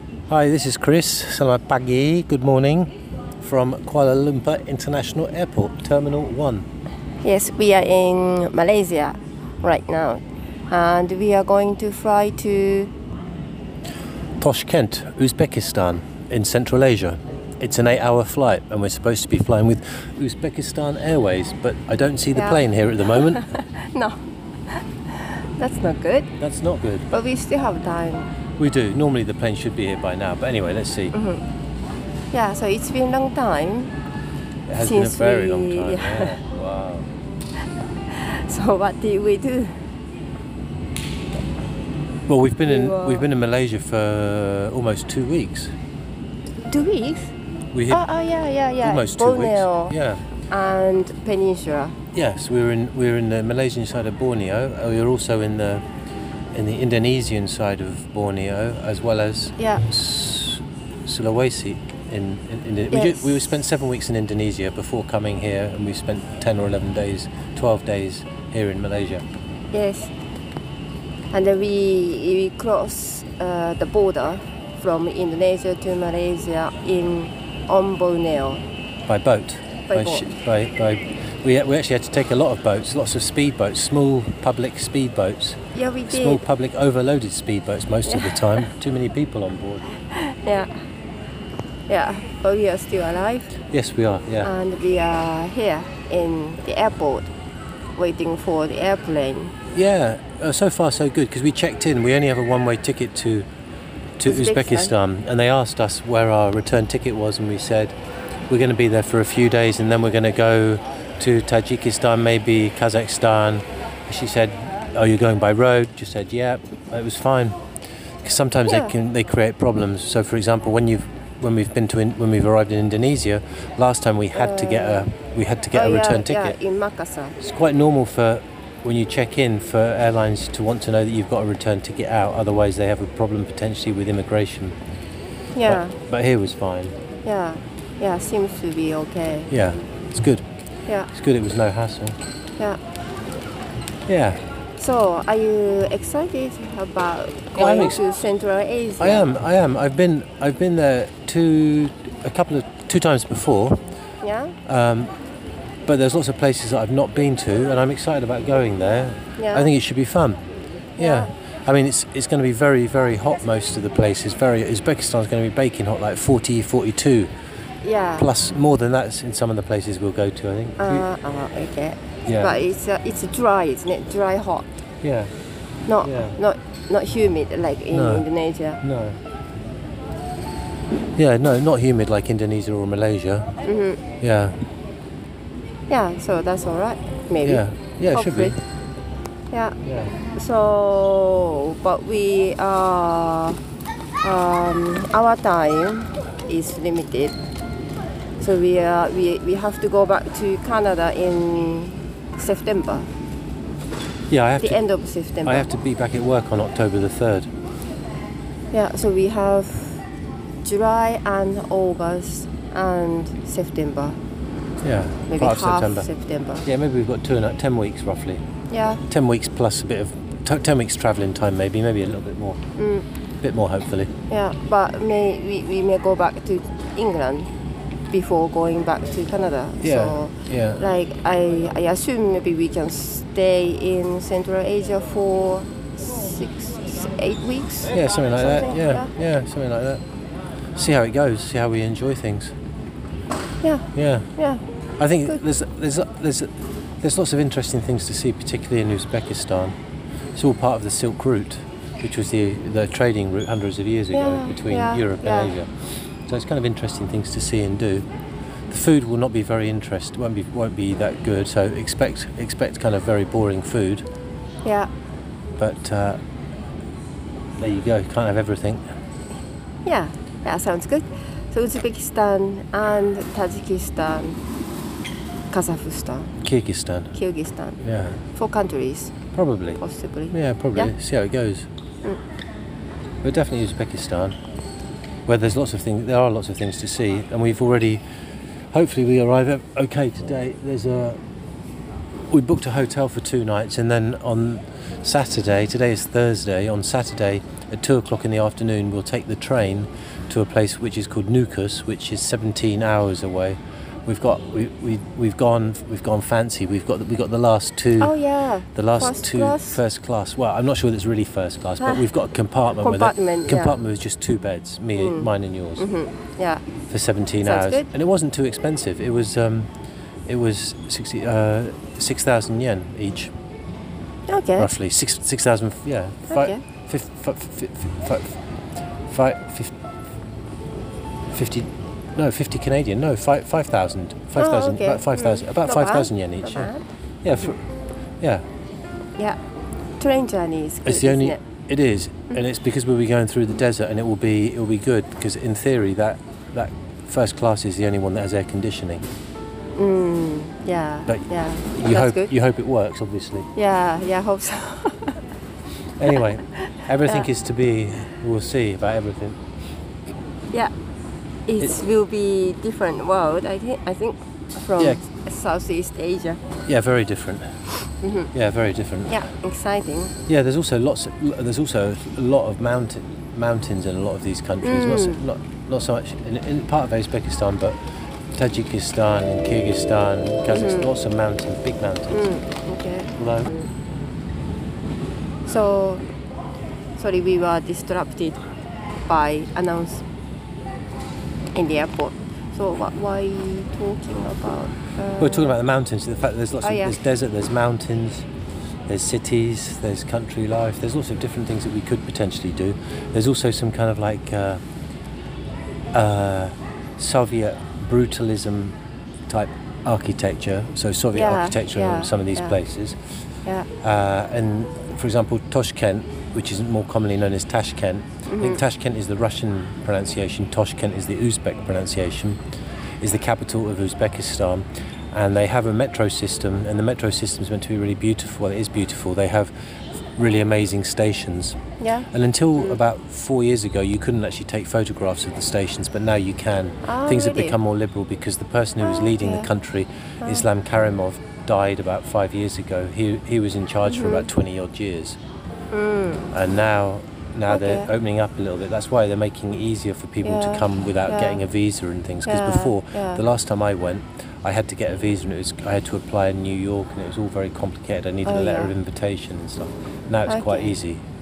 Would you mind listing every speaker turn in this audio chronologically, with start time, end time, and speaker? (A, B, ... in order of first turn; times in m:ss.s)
0:00.3-0:06.6 A
0:07.2-0:12.9 B
0:14.4-0:23.5 A
0:22.4-0:24.2 B
0:24.7-0:26.3 B
0:26.4-0:27.1 A
0:27.1-0:28.3 B
0:28.6-0:31.1 A
0:31.1-0:31.4 B
0:32.3-0:33.9 B
0:34.7-0:37.1 A
0:34.8-0:36.4 B
0:38.1-0:39.8 B
0:42.3-0:45.7 A
0:42.6-0:43.3 B
0:46.7-0:47.3 B
0:47.7-0:48.0 A
0:47.9-0:49.9 B
0:48.8-0:50.2 A
0:50.5-0:52.0 B
0:52.1-0:55.8 A
0:56.5-1:09.2 A
0:59.6-0:59.8 B
1:02.9-1:03.4 B
1:09.7-1:10.1 B
1:11.3-1:18.6 B
1:19.1-1:25.6 A
1:19.9-1:20.3 B
1:25.7-1:26.4 B
1:26.1-1:29.9 A
1:28.0-1:28.7 B
1:30.1-1:30.7 B
1:31.9-1:33.5 B
1:33.7-1:34.5 A
1:34.4-1:37.3 B
1:38.0-1:39.6 B
1:39.7-1:43.5 A
1:44.2-1:48.0 A
1:44.2-1:44.9 B
1:48.5-1:57.6 A
1:58.2-2:06.6 A
1:58.7-1:58.9 B
2:04.3-2:05.1 B
2:05.7-2:07.4 B
2:07.4-2:14.8 A
2:15.5-2:15.9 B
2:15.6-2:16.9 A
2:17.2-2:19.5 B
2:19.5-2:20.4 A
2:21.1-2:22.2 A
2:24.1-2:24.4 A
2:24.8-2:29.3 B
2:27.6-2:28.0 A
2:29.0-2:33.8 A
2:34.2-2:34.6 B
2:34.6-2:35.1 A
2:35.8-2:40.4 A
2:39.4-2:39.7 B
2:41.0-2:41.3 B
2:41.0-2:47.3 A
2:47.8-2:48.3 B
2:48.2-2:51.0 A
2:50.8-2:54.6 B
2:52.2-2:52.6 A
2:55.0-2:55.3 A
2:55.9-2:58.8 B
2:56.0-2:56.4 A
2:57.9-2:58.2 A
2:58.8-2:59.2 A
3:01.2-3:03.5 A
3:03.6-3:04.0 B
3:04.2-3:04.6 A
3:05.9-3:08.6 B
3:07.4-3:08.6 A
3:09.5-3:13.6 B
3:09.8-3:10.1 A
3:14.2-3:17.3 B
3:18.4-3:23.1 B
3:24.3-3:24.8 A
3:24.6-3:25.7 B
3:25.4-3:27.5 A
3:28.7-3:30.0 B
3:30.6-3:34.2 B
3:34.8-3:36.1 A
3:35.3-3:36.7 B
3:36.6-3:38.4 A
3:38.7-3:39.0 B
3:39.1-3:42.6 A
3:42.8-3:43.0 B
3:43.4-3:44.1 A
3:44.3-3:47.5 B
3:48.1-3:59.1 B
3:49.8-3:50.8 A
3:57.9-4:00.0 A
4:00.7-4:02.5 A
4:03.6-4:04.6 B
4:03.9-4:04.3 A
4:05.0-4:09.8 A
4:10.3-4:15.7 A
4:14.1-4:15.6 B
4:16.3-4:18.0 A
4:18.7-4:24.0 A
4:24.6-4:24.9 B
4:25.6-4:26.2 A
4:27.6-4:28.8 A
4:29.8-4:34.4 B
4:35.5-4:36.3 B
4:36.4-4:37.2 A
4:37.1-4:39.2 B
4:37.8-4:38.2 A
4:39.3-4:39.8 A
4:39.8-4:40.9 B
4:40.3-4:41.7 A
4:43.2-4:44.4 A
4:45.3-4:48.0 A
4:48.7-4:51.2 A
4:52.3-5:08.1 A
5:08.0-5:09.8 B
5:08.7-5:15.8 A
5:12.8-5:13.8 B
5:14.9-5:16.6 B
5:16.9-5:19.7 A
5:17.4-5:17.9 B
5:20.3-5:23.3 A
5:24.3-5:24.7 B
5:24.6-5:28.4 A
5:26.3-5:26.6 B
5:29.1-5:29.7 A
5:31.3-5:36.7 A
5:34.4-5:36.8 B
5:37.2-5:37.6 A
5:40.0-5:41.4 B
5:40.8-5:49.0 A
5:49.8-5:52.3 B
5:51.1-5:53.5 A
5:53.5-5:55.2 B
5:56.0-5:59.4 A
5:56.6-5:57.3 B
6:01.5-6:06.4 B
6:06.7-6:07.5 A
6:07.9-6:08.3 B
6:08.3-6:09.2 A
6:09.1-6:10.1 B
6:10.2-6:17.8 A
6:14.6-6:15.2 B
6:18.3-6:22.3 A
6:20.5-6:20.9 B
6:22.1-6:23.7 B
6:23.2-6:23.5 A
6:25.4-6:26.0 B
6:27.0-6:28.4 B
6:29.1-6:30.0 B
6:31.5-6:35.5 B
6:35.2-6:38.3 A
6:36.6-6:36.9 B
6:38.9-6:44.6 A
6:45.9-6:48.7 A
6:49.3-6:53.0 A
6:51.1-6:52.6 B
6:53.8-7:02.4 A
6:58.3-6:58.6 B
7:03.0-7:09.5 A
7:10.2-7:11.6 A
7:11.8-7:12.1 B
7:12.1-7:25.2 A
7:16.8-7:17.6 B
7:18.8-7:19.5 B
7:23.8-7:24.3 B
7:25.7-7:26.3 B
7:26.3-7:41.0 A
7:27.5-7:27.9 B
7:30.2-7:31.4 B
7:32.2-7:33.2 B
7:38.2-7:38.7 B
7:40.2-7:40.7 B